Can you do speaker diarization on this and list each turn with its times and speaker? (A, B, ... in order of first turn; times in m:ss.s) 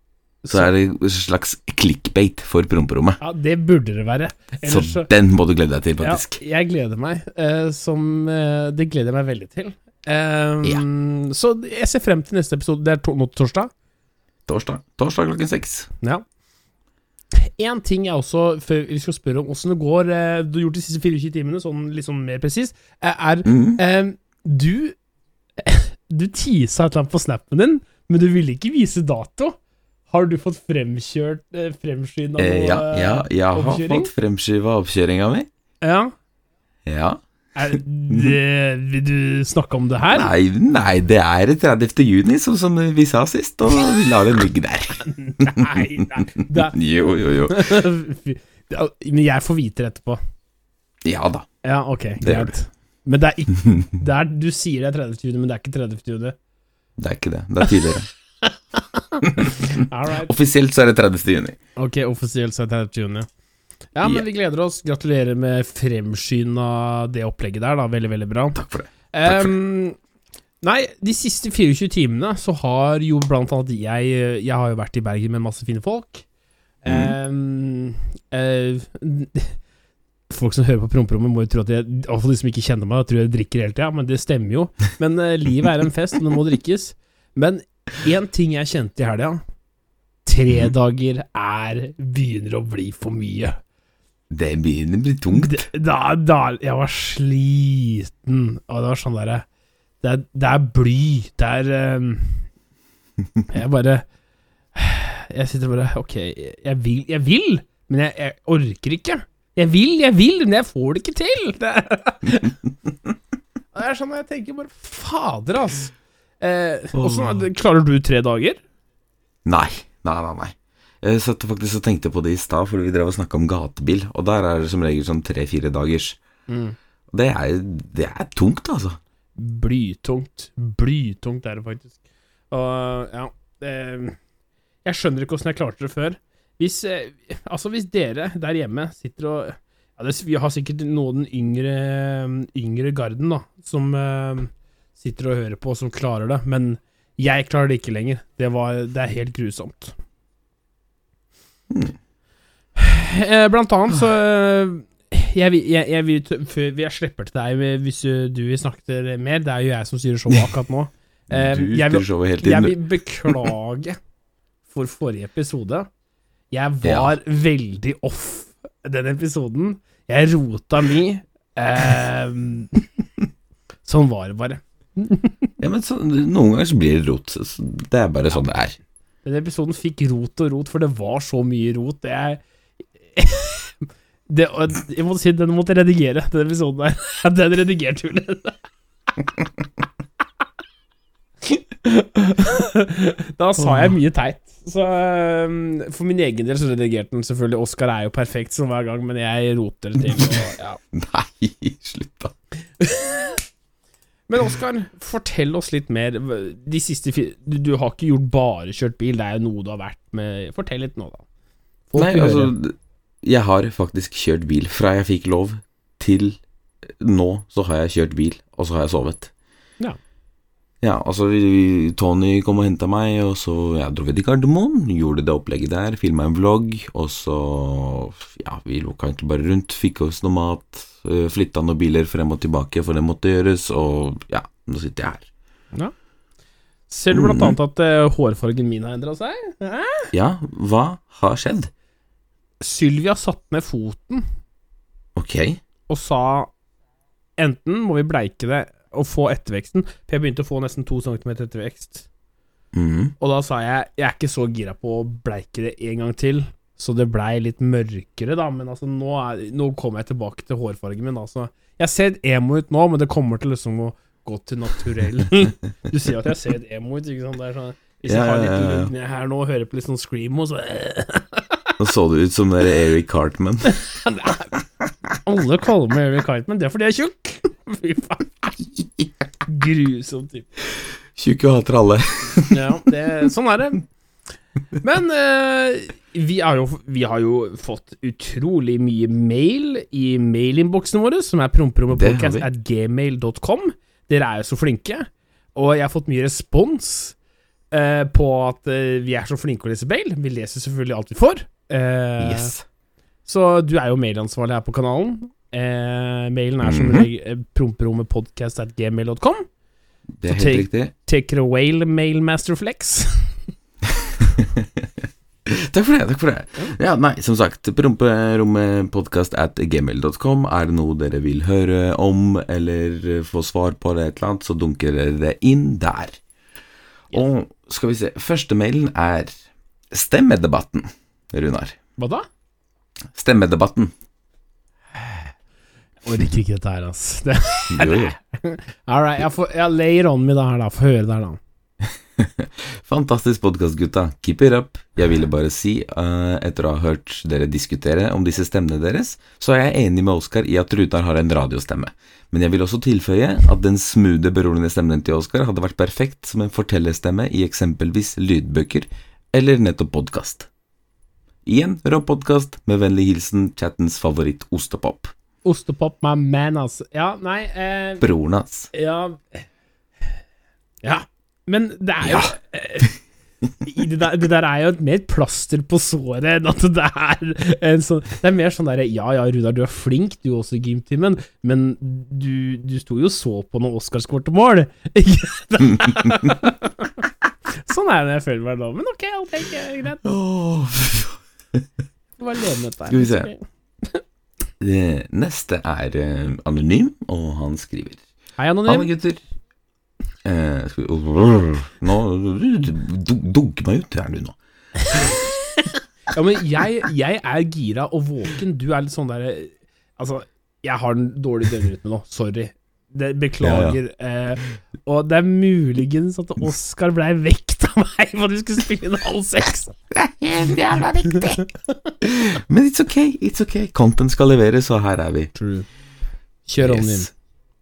0:00.4-0:00.7 A
0:00.5-0:03.2 B
0:03.2-0:05.1 A
0:04.6-0:06.4 B
0:06.0-0:13.7 A
0:14.5-0:15.9 B
0:17.3-0:25.0 A
0:23.5-0:23.8 B
0:25.6-0:29.6 A
0:30.1-0:34.1 A
0:32.4-0:35.5 B
0:35.8-0:36.1 A
0:36.9-0:37.2 B
0:37.6-0:40.3 A
0:40.1-0:47.8 B
0:45.1-0:46.8 A
0:47.5-0:50.2 A
0:51.0-0:51.5 B
0:51.6-0:56.4 A
0:52.2-0:52.5 B
0:57.0-0:58.1 B
0:58.5-1:00.3 A
0:59.2-1:01.6 B
1:01.8-1:03.3 A
1:04.0-1:08.6 A
1:08.6-1:09.5 B
1:09.1-1:10.0 A
1:10.6-1:16.2 A
1:16.8-1:19.6 A
1:16.9-1:17.2 B
1:20.3-1:29.4 A
1:30.3-1:33.6 A
1:34.3-1:35.7 B
1:35.3-1:39.4 A
1:40.0-1:42.5 A
1:43.5-1:44.1 A
1:44.8-1:52.6 A
1:53.7-1:58.6 A
1:57.0-1:57.4 B
1:59.4-2:06.2 B
2:06.5-2:06.8 A
2:07.1-2:09.0 B
2:09.4-2:12.0 A
2:12.5-2:14.2 A
2:14.8-2:30.0 A
2:31.7-2:32.0 B
2:32.8-2:44.0 A
2:41.3-2:43.5 B
2:44.7-2:45.9 A
2:46.5-2:52.9 A
2:46.8-2:47.2 B
2:53.8-2:55.5 A
2:55.6-2:58.8 B
2:59.2-3:02.4 A
3:03.1-3:03.7 A
3:04.3-3:08.6 A
3:11.5-3:20.8 A
3:13.6-3:14.0 B
3:20.1-3:20.4 B
3:20.9-3:22.3 B
3:22.8-3:23.4 A
3:24.3-3:31.2 A
3:31.9-3:32.5 A
3:32.0-3:39.3 B
3:40.8-3:55.3 B
3:56.9-4:00.1 A
3:57.1-3:57.6 B
4:00.1-4:01.7 B
4:02.6-4:04.3 A
4:05.2-4:05.6 B
4:05.9-4:06.5 A
4:07.4-4:12.1 A
4:12.7-4:13.1 B
4:13.2-4:31.6 A
4:28.0-4:28.9 B
4:31.8-4:33.8 B
4:33.7-4:34.6 A
4:35.2-4:38.3 A
4:38.6-4:39.1 B
4:39.5-4:40.5 A
4:40.7-4:42.6 B
4:42.5-4:43.8 A
4:44.8-4:57.2 A
4:51.9-4:52.5 B
4:57.7-5:02.5 A
5:02.2-5:02.6 B
5:03.2-5:09.5 A
5:06.6-5:07.1 B
5:10.2-5:10.9 B
5:10.3-5:13.4 A
5:14.4-5:14.9 B
5:15.5-5:26.2 B
5:27.1-5:29.4 B
5:29.9-5:31.8 B
5:32.0-5:32.3 A
5:33.1-5:33.9 B
5:36.0-5:41.4 A
5:37.7-5:38.2 B
5:42.2-6:00.5 B
6:01.5-6:05.1 B
6:05.4-6:08.0 A
6:08.0-6:08.7 B
6:08.7-6:09.4 A
6:10.8-6:13.0 A
6:12.0-6:12.3 B
6:13.6-6:27.0 A
6:25.7-6:26.1 B
6:27.6-6:30.0 A
6:30.0-6:31.7 B
6:32.2-6:34.0 A
6:32.9-6:33.3 B
6:34.6-6:38.0 B
6:38.4-6:38.9 A
6:38.7-6:39.2 B
6:40.2-6:44.4 B
6:44.9-6:45.2 A
6:46.1-6:59.8 A
6:53.4-6:53.8 B
7:00.0-7:01.4 B
7:02.0-7:05.3 B
7:05.4-7:05.7 A
7:06.5-7:07.1 A
7:06.6-7:07.1 B